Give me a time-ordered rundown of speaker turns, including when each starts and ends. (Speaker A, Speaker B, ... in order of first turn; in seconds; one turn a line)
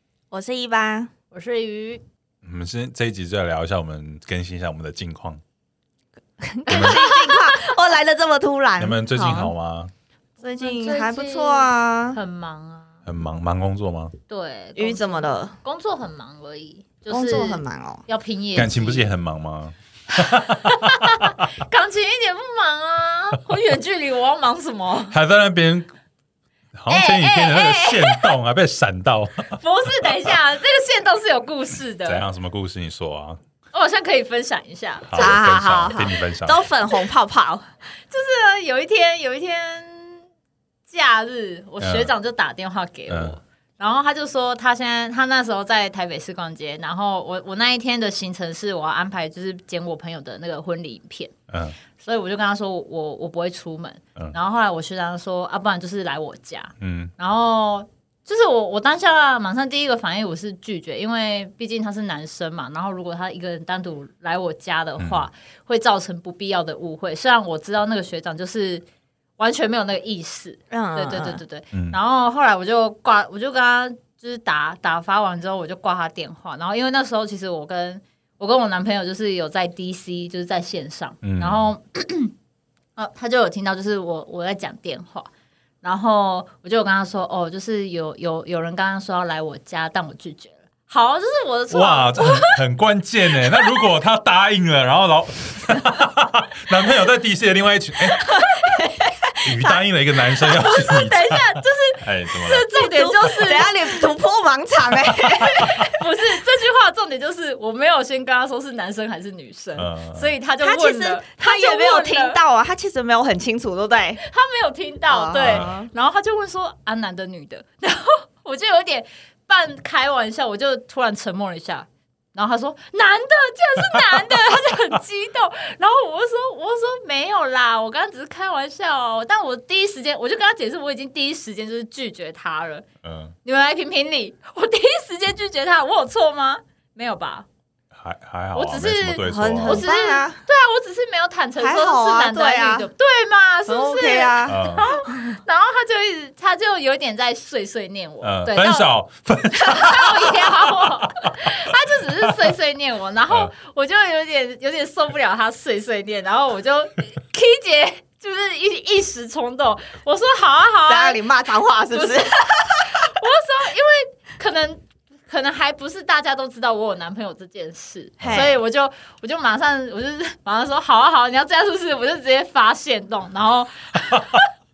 Speaker A: 0.3-1.1
Speaker B: 1.3-2.0
Speaker C: 2.4-5.4
Speaker A: 6.4-9.5
Speaker C: 6.7-7.0
Speaker B: 6.7-7.8
Speaker C: 8.8-9.9
Speaker B: 10.4-13.0
Speaker A: 10.4-12.2
Speaker C: 13.1-14.1
Speaker B: 14.3-19.1
Speaker A: 14.8-15.6
Speaker A: 17.1-18.1
Speaker C: 18.6-21.5
Speaker B: 20.6-25.1
Speaker C: 25.1-25.9
Speaker C: 26.8-29.6
Speaker B: 26.9-28.3
Speaker B: 29.6-32.2
Speaker C: 32.0-33.4
Speaker B: 33.7-35.4
Speaker C: 35.1-36.7
Speaker A: 35.2-37.6
Speaker B: 38.1-40.2
Speaker B: 40.9-51.3
Speaker C: 41.8-42.1
Speaker C: 43.1-43.4
Speaker C: 51.5-51.8
Speaker B: 52.0-68.9
Speaker C: 56.8-57.1
Speaker C: 65.0-65.3
Speaker B: 69.4-82.3
Speaker A: 70.7-71.4
Speaker C: 71.7-72.0
Speaker C: 81.2-81.7
Speaker B: 83.0-85.3
Speaker B: 85.8-92.6
Speaker C: 91.7-98.3
Speaker B: 93.3-93.8
Speaker A: 98.2-99.8
Speaker B: 98.3-98.8
Speaker C: 99.4-102.7
Speaker B: 100.5-104.0
Speaker A: 102.7-106.1
Speaker C: 105.2-105.7
Speaker B: 105.9-112.4
Speaker C: 109.8-110.3
Speaker A: 110.6-114.2
Speaker B: 114.2-132.8
Speaker A: 115.1-115.9
Speaker C: 115.4-115.7
Speaker C: 123.9-124.3
Speaker C: 133.0-133.3
Speaker B: 133.4-137.5
Speaker C: 137.9-139.8
Speaker B: 138.5-148.9
Speaker A: 139.2-140.4
Speaker A: 141.6-142.9
Speaker A: 143.7-144.7
Speaker C: 144.5-144.9
Speaker C: 148.2-151.4
Speaker B: 149.6-161.2
Speaker A: 160.9-163.2
Speaker B: 161.9-162.3
Speaker B: 163.0-174.5
Speaker C: 168.2-168.6
Speaker A: 168.2-168.6
Speaker C: 174.1-174.4